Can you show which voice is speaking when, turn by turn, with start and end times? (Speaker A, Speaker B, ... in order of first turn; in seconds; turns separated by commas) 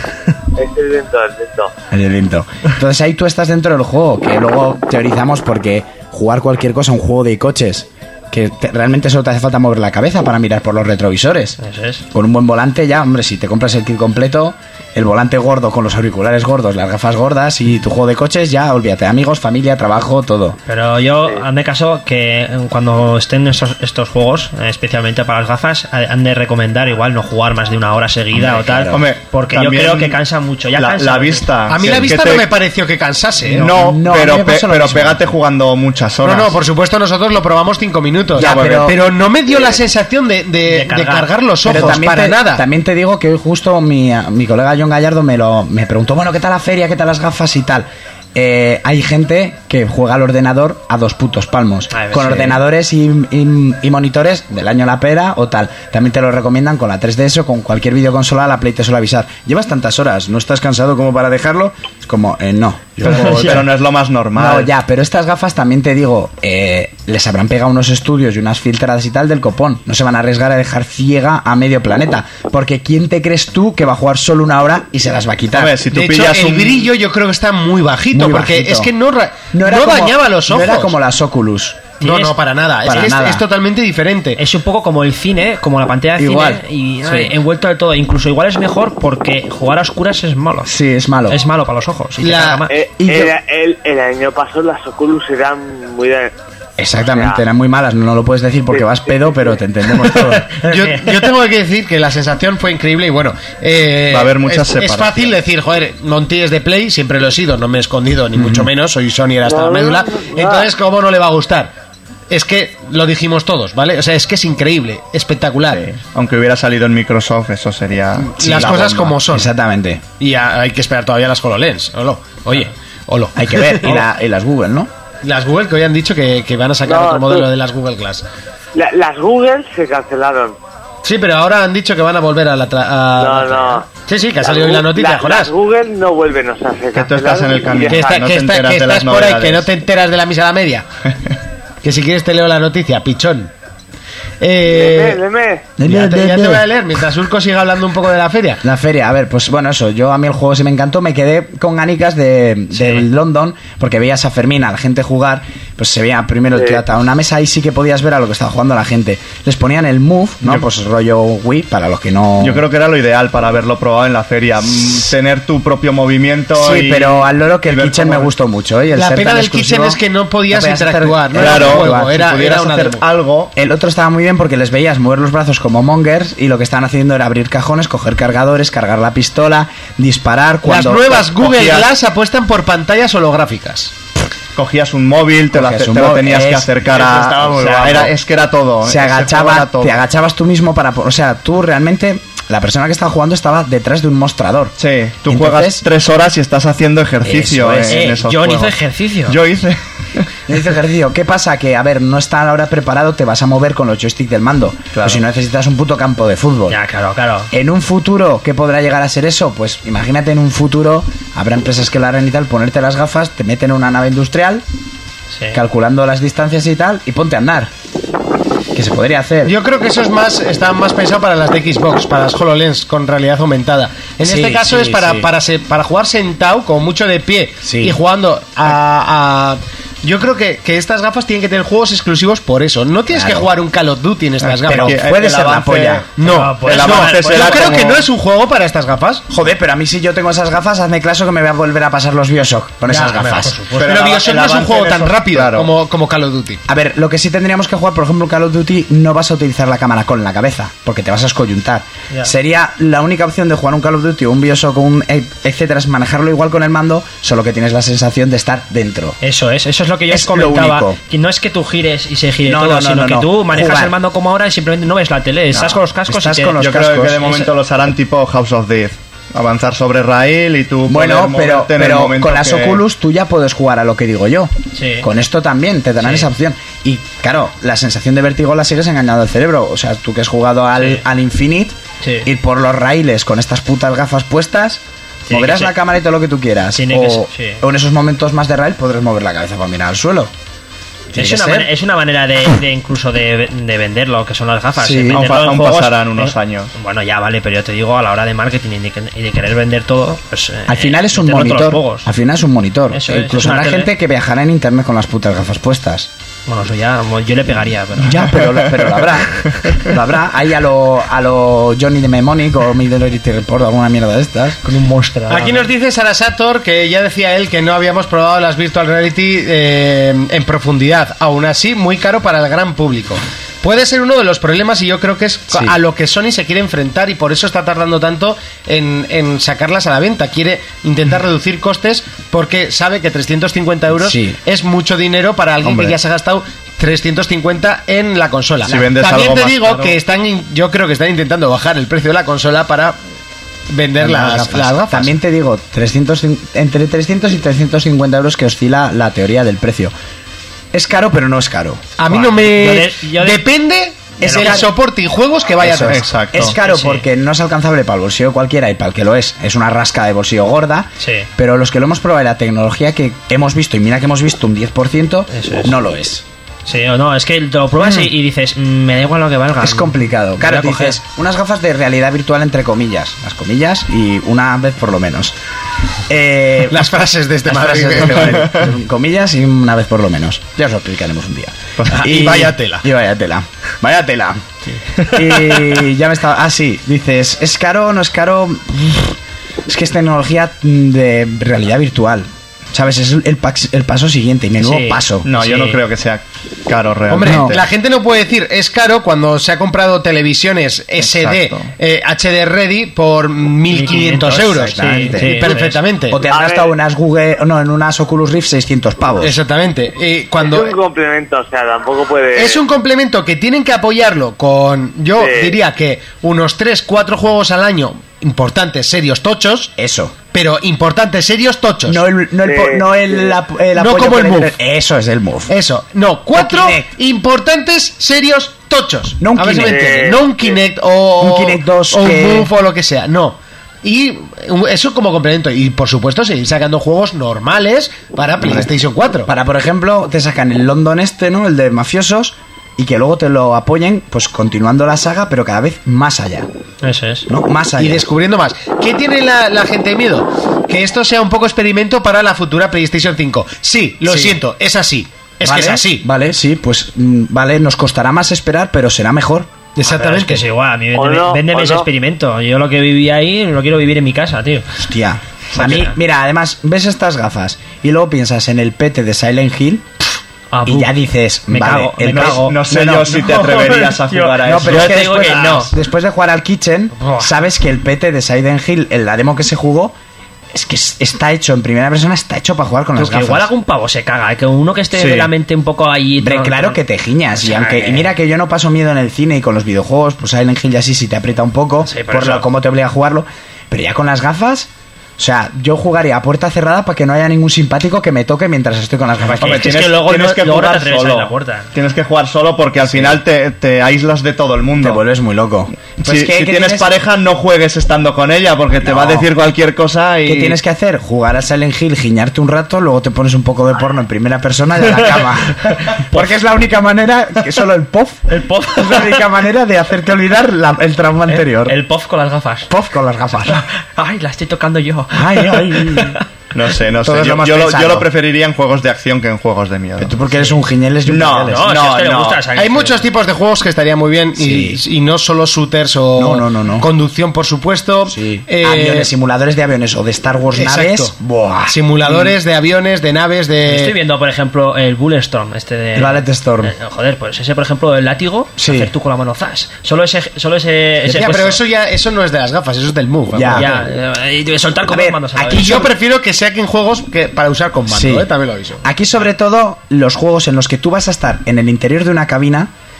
Speaker A: 0.6-1.7, Speaker B: 1.9-11.6, Speaker C: 11.6-12.0, Speaker B: 12.1-20.6, Speaker C: 20.7-31.5, Speaker B: 28.3-29.1, Speaker D: 28.9-30.2, Speaker D: 30.8-32.5, Speaker E: 31.7-33.7, Speaker D: 33.5-36.6, Speaker B: 33.7-35.2, Speaker E: 36.2-42.6, Speaker B: 38.4-39.0, Speaker D: 38.4-38.9, Speaker C: 40.7-41.8, Speaker B: 41.6-63.7, Speaker C: 51.9-52.6, Speaker D: 63.1-64.7, Speaker C: 63.1-63.6, Speaker B: 64.3-75.8, Speaker D: 75.5-76.9, Speaker E: 75.9-81.0, Speaker B: 78.1-78.9, Speaker B: 79.5-81.9, Speaker C: 82.0-82.3, Speaker E: 82.0-84.4, Speaker B: 82.8-83.5, Speaker C: 84.4-90.7, Speaker B: 86.2-86.6, Speaker B: 90.7-91.4, Speaker C: 91.3-92.8, Speaker E: 92.2-92.7, Speaker A: 92.7-96.3, Speaker B: 93.0-93.3, Speaker B: 96.8-100.6, Speaker A: 97.0-97.4, Speaker A: 98.7-99.4, Speaker E: 100.6-111.7, Speaker C: 100.6-101.1, Speaker D: 104.1-105.3, Speaker B: 108.4-108.7, Speaker A: 109.4-110.7, Speaker E: 112.3-115.8, Speaker D: 115.7-118.3, Speaker B: 118.2-120.0, Speaker E: 118.3-119.5, Speaker E: 120.2-124.0, Speaker B: 123.3-124.9, Speaker E: 125.2-128.2, Speaker A: 126.8-127.5, Speaker A: 128.7-130.6, Speaker E: 131.0-135.5, Speaker A: 133.2-133.9, Speaker A: 134.4-138.2, Speaker D: 136.9-139.7, Speaker E: 137.9-140.9, Speaker E: 141.8-143.5, Speaker E: 144.4-145.2, Speaker A: 144.7-145.7, Speaker B: 145.8-146.7, Speaker E: 145.8-148.6, Speaker B: 148.6-162.6, Speaker D: 162.4-168.3, Speaker B: 166.6-172.2, Speaker E: 168.9-173.0, Speaker D: 171.3-173.5, Speaker B: 173.6-181.2, Speaker E: 180.7-183.9, Speaker D: 181.3-181.9, Speaker D: 184.6-190.0, Speaker B: 185.5-188.1, Speaker B: 188.8-194.8, Speaker D: 194.8-198.8, Speaker B: 195.3-195.8, Speaker B: 197.2-198.1, Speaker C: 197.9-199.4, Speaker D: 199.3-200.3, Speaker B: 200.5-206.8, Speaker D: 204.9-205.2, Speaker C: 206.7-207.5, Speaker B: 207.5-214.6, Speaker B: 215.5-217.7, Speaker B: 218.7-219.6, Speaker E: 219.4-235.0, Speaker B: 224.2-225.3, Speaker B: 227.6-228.0, Speaker B: 233.1-233.5, Speaker D: 234.4-238.1, Speaker B: 234.7-236.1, Speaker E: 236.2-239.2, Speaker C: 236.2-237.9, Speaker B: 239.3-243.6, Speaker E: 242.9-246.6, Speaker C: 242.9-243.9, Speaker D: 243.7-245.7, Speaker B: 246.7-259.2, Speaker C: 259.2-266.6, Speaker B: 260.1-261.0, Speaker B: 262.4-264.0, Speaker B: 266.1-267.3, Speaker D: 266.6-272.8, Speaker C: 267.2-267.5, Speaker B: 270.9-290.3, Speaker C: 274.7-275.1, Speaker C: 276.0-276.3, Speaker C: 282.0-282.3, Speaker C: 285.3-285.7, Speaker C: 286.7-287.6, Speaker B: 291.1-291.7, Speaker C: 291.1-302.1, Speaker B: 294.8-295.3, Speaker D: 295.1-296.7, Speaker B: 300.7-306.1, Speaker C: 302.9-303.9, Speaker C: 306.5-308.3, Speaker B: 308.0-314.6, Speaker C: 314.6-315.7, Speaker E: 315.3-343.0, Speaker B: 325.5-325.8, Speaker B: 333.9-334.4, Speaker B: 335.6-336.0, Speaker D: 338.7-340.0, Speaker E: 343.7-345.2, Speaker B: 344.0-349.9, Speaker B: 350.7-351.9, Speaker E: 352.0-356.3, Speaker C: 352.1-353.4, Speaker B: 354.2-354.7, Speaker C: 354.3-354.6, Speaker B: 355.6-366.2, Speaker D: 355.7-356.6, Speaker C: 356.4-357.1, Speaker C: 361.0-361.3, Speaker C: 365.3-365.7, Speaker C: 366.7-371.0, Speaker B: 367.8-368.1, Speaker B: 369.6-375.4, Speaker B: 376.1-376.9, Speaker E: 376.7-378.5, Speaker B: 377.5-384.4, Speaker E: 381.9-382.9, Speaker B: 385.0-395.3, Speaker C: 394.6-395.8, Speaker D: 395.2-397.6, Speaker E: 397.1-406.2, Speaker B: 397.2-397.6, Speaker D: 401.0-401.7, Speaker C: 403.7-405.8, Speaker B: 404.3-409.4, Speaker A: 406.3-406.7, Speaker E: 409.2-410.8, Speaker A: 410.4-412.6, Speaker E: 412.4-419.7, Speaker A: 415.2-415.6, Speaker B: 419.8-420.1, Speaker E: 420.3-422.0, Speaker B: 421.9-425.6, Speaker A: 422.4-423.4, Speaker E: 423.8-424.6, Speaker E: 425.5-439.3, Speaker B: 426.3-426.9, Speaker B: 429.2-430.1, Speaker A: 429.6-430.6, Speaker B: 431.2-432.5, Speaker B: 439.3-446.5, Speaker C: 446.8-447.3, Speaker B: 447.3-448.1, Speaker E: 447.8-456.1, Speaker B: 454.1-454.4, Speaker B: 455.4-459.5, Speaker E: 459.8-460.4, Speaker C: 459.9-464.7, Speaker A: 461.0-461.9, Speaker B: 464.8-469.9, Speaker C: 465.6-465.9, Speaker C: 470.5-471.0, Speaker B: 470.6-473.3, Speaker C: 471.5-475.7, Speaker D: 472.1-475.6, Speaker B: 474.4-480.0, Speaker C: 477.0-477.3, Speaker B: 480.5-483.5, Speaker C: 483.0-486.8, Speaker D: 484.9-485.3, Speaker B: 486.2-499.8, Speaker C: 487.4-488.1, Speaker C: 491.8-492.5, Speaker C: 499.4-501.7, Speaker D: 499.4-505.0, Speaker B: 502.8-503.2, Speaker B: 504.8-506.9, Speaker D: 506.0-510.6, Speaker B: 508.8-509.3, Speaker B: 510.2-521.8, Speaker C: 515.7-516.3, Speaker C: 518.3-519.3, Speaker C: 521.3-522.7, Speaker B: 522.7-523.6, Speaker C: 523.5-526.2, Speaker B: 525.1-526.2, Speaker D: 526.5-530.1, Speaker B: 527.0-528.1, Speaker B: 530.0-531.7, Speaker D: 531.1-532.5, Speaker C: 531.5-533.1, Speaker E: 532.5-539.1, Speaker B: 534.4-534.8, Speaker B: 536.2-536.9, Speaker B: 538.1-542.3, Speaker E: 540.5-541.1, Speaker E: 541.7-543.9, Speaker C: 543.7-551.6, Speaker B: 546.0-546.7, Speaker B: 548.6-548.9, Speaker E: 551.0-553.8, Speaker B: 553.3-553.7, Speaker C: 553.5-555.9, Speaker B: 554.9-555.9, Speaker E: 555.5-558.9, Speaker B: 557.9-558.3, Speaker B: 558.8-562.7